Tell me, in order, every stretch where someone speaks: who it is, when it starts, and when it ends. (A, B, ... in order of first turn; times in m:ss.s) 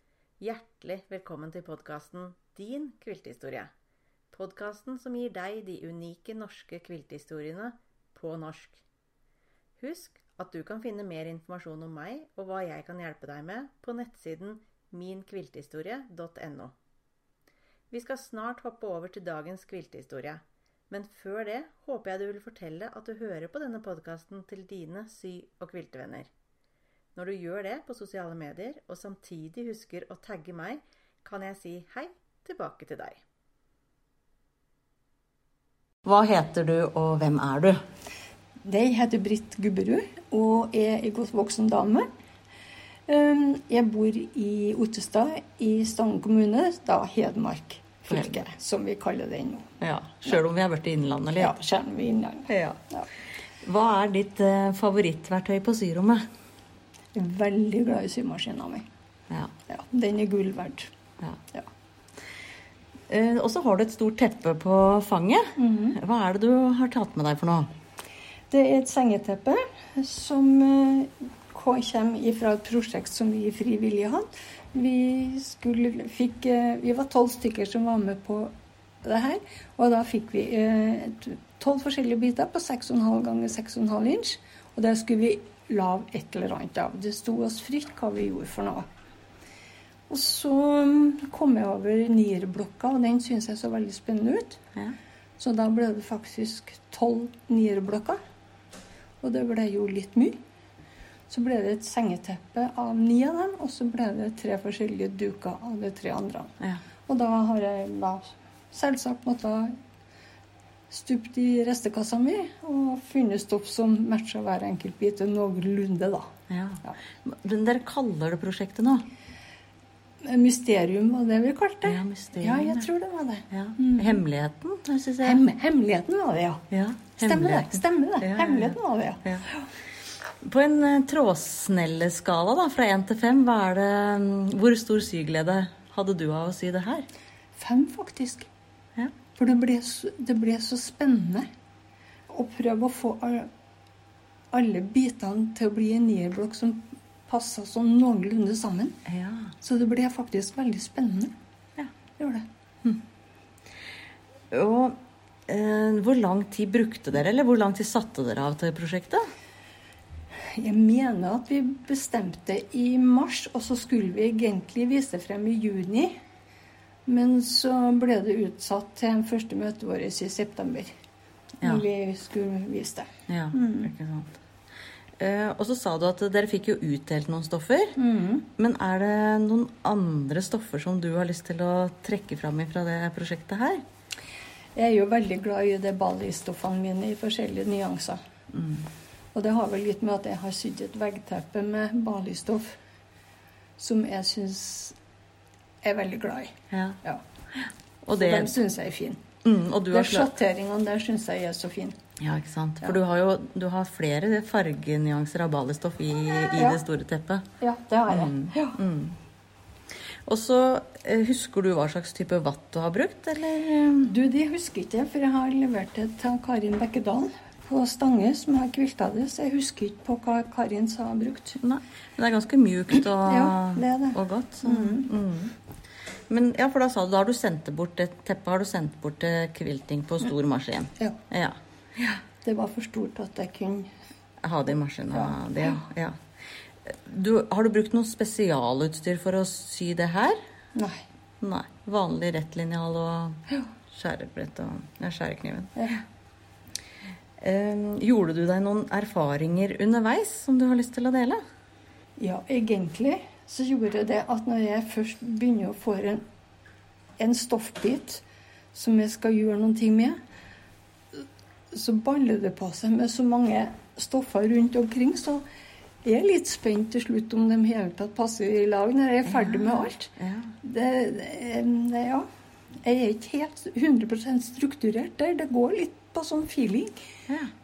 0:00.4-0:03.7 A
0:04.3-0:08.8 A
0:09.8-0:16.7 A
0:17.9-0:26.3 A
0:27.1-0:33.2 A
0:36.0-0:37.8 B
0:38.6-0:42.1 C
0:43.1-0:49.7 C
0:48.1-0:48.4 B
0:49.8-0:51.6 B
0:51.4-0:53.1 C
0:52.5-0:52.8 B
0:53.6-0:56.2 B
0:57.1-0:58.9 C
0:59.7-1:00.9 C
1:03.1-1:07.7 B
1:05.6-1:06.0 C
1:08.5-1:18.5 C
1:19.0-1:28.8 C
1:30.1-1:34.6 C
1:35.4-1:38.2 C
1:39.2-1:40.4 C
1:41.3-1:49.7 C
1:50.9-1:56.3 C
1:56.5-1:59.0 B
2:00.2-2:04.2 C
2:01.8-2:02.9 B
2:03.5-2:05.4 B
2:05.2-2:06.6 C
2:06.7-2:09.5 B
2:07.2-2:09.3 C
2:10.4-2:17.0 B
2:17.6-2:18.5 C
2:19.3-2:21.5 C
2:22.3-2:23.5 C
2:24.5-2:29.0 C
2:29.1-2:29.5 B
2:29.6-2:31.3 C
2:32.2-2:32.4 C
2:34.5-2:39.2 B
2:40.5-2:46.1 C
2:47.0-2:50.9 C
2:51.6-2:51.8 B
2:51.6-2:53.9 C
2:53.3-2:54.4 B
2:55.2-2:58.0 B
2:58.0-2:58.5 C
2:58.6-3:03.8 B
3:04.7-3:08.2 C
3:08.5-3:08.9 B
3:09.3-3:12.7 C
3:13.8-3:15.0 C
3:15.8-3:17.2 C
3:16.7-3:17.0 B
3:18.0-3:18.6 B
3:18.1-3:19.2 C
3:19.4-3:20.3 B
3:19.9-3:22.0 C
3:22.2-3:27.4 B
3:26.5-3:26.8 C
3:27.6-3:28.8 C
3:28.1-3:29.2 B
3:30.3-3:34.1 B
3:34.0-3:41.6 C
3:41.6-3:45.5 B
3:43.2-3:45.1 C
3:46.3-3:52.2 B
3:52.4-3:53.9 C
3:54.4-3:56.1 B
3:55.1-3:55.4 C
3:56.8-4:00.4 B
4:00.7-4:01.0 C
4:01.4-4:03.4 B
4:03.9-4:05.9 B
4:05.8-4:06.0 C
4:07.4-4:11.4 B
4:12.2-4:16.2 C
4:17.2-4:20.2 C
4:21.2-4:25.4 C
4:26.0-4:32.3 C
4:29.2-4:30.6 B
4:32.8-4:37.0 C